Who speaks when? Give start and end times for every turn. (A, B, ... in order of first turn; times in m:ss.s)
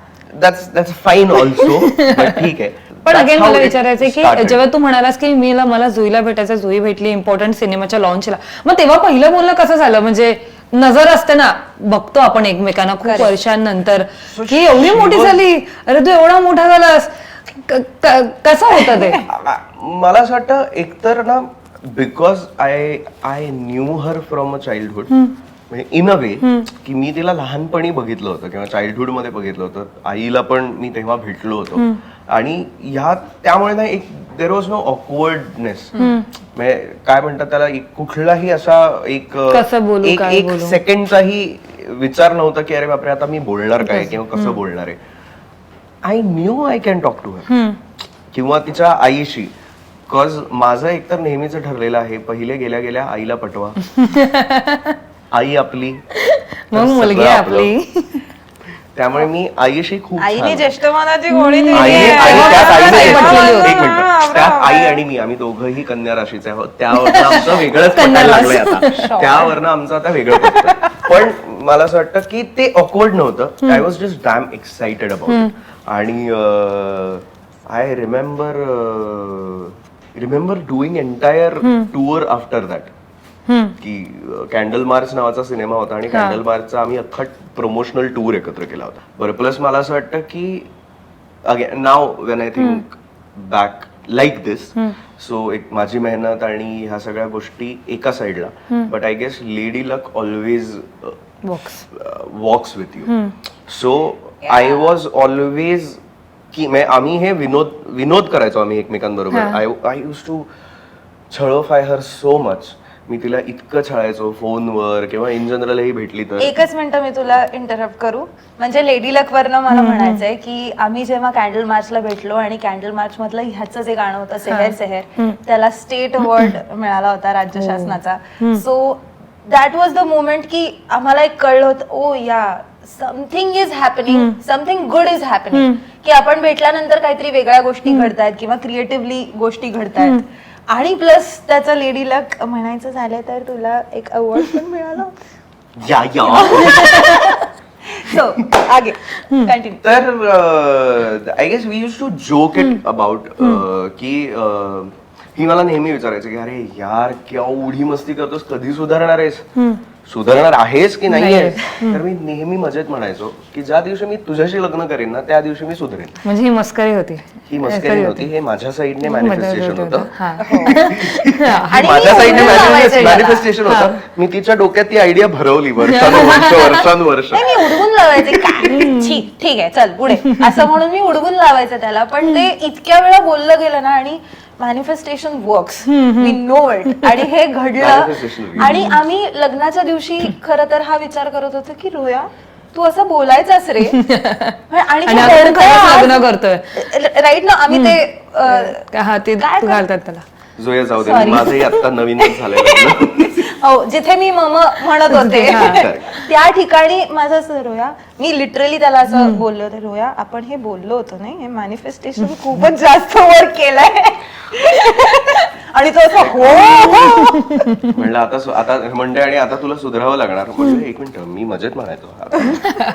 0:00.3-0:04.6 A
0:01.4-0:02.4 B
0:03.1-0:19.2 B
0:13.0-0:13.3 C
0:14.3-0:15.5 A
0:18.9-0:19.2 C
0:19.1-0:36.0 A
0:26.4-0:26.7 B
0:36.0-0:36.3 B
0:36.5-0:45.0 A
0:39.5-0:40.8 B
0:43.9-0:44.6 B
0:46.0-0:47.5 A
0:47.5-0:47.8 B
0:48.3-0:49.5 A
0:50.1-0:53.8 A
0:54.0-0:55.0 B
0:55.3-0:56.0 A
0:56.2-0:58.2 B
0:56.7-0:57.7 A
0:59.0-1:00.7 A
1:00.2-1:05.0 C
1:01.3-1:03.8 B
1:01.7-1:22.9 A
1:06.9-1:09.1 B
1:08.8-1:09.6 C
1:10.6-1:11.0 C
1:21.6-1:21.9 B
1:23.5-1:23.8 B
1:23.8-1:30.7 A
1:26.1-1:26.4 B
1:31.4-1:41.2 A
1:32.6-1:32.8 B
1:41.4-1:41.8 B
1:41.9-1:43.1 A
1:43.1-1:43.3 B
1:43.7-1:46.0 A
1:44.4-1:44.9 C
1:46.5-1:50.5 A
1:49.3-1:49.6 B
1:51.3-1:56.6 A
1:56.4-2:25.1 C
1:59.7-2:00.2 B
2:04.5-2:05.4 B
2:06.3-2:06.5 B
2:07.6-2:08.6 B
2:14.1-2:14.4 B
2:15.5-2:15.8 B
2:17.9-2:18.1 B
2:25.8-2:27.1 A
2:26.3-2:29.8 C
2:29.8-2:39.5 A
2:39.6-2:39.8 B
2:40.0-2:46.2 A
2:41.1-2:42.0 B
2:46.2-2:48.3 B
2:47.5-2:58.4 A
2:49.0-2:53.1 B
2:50.4-2:50.8 C
2:51.7-2:53.5 C
2:53.6-2:54.0 B
2:55.9-2:56.9 B
2:57.3-3:14.0 C
2:58.7-2:59.2 B
3:00.2-3:00.6 B
3:05.9-3:07.2 B
3:07.8-3:08.9 A
3:08.6-3:09.0 B
3:13.8-3:16.8 B
3:14.7-3:18.8 C
3:17.7-3:18.0 B
3:18.6-3:20.2 B
3:19.4-3:19.9 C
3:20.6-3:23.4 A
3:21.0-3:21.8 C
3:21.3-3:21.7 B
3:22.7-3:37.7 C
3:25.1-3:26.2 B
3:25.5-3:26.0 A
3:29.1-3:29.4 B
3:36.2-3:36.9 A
3:37.8-3:42.7 A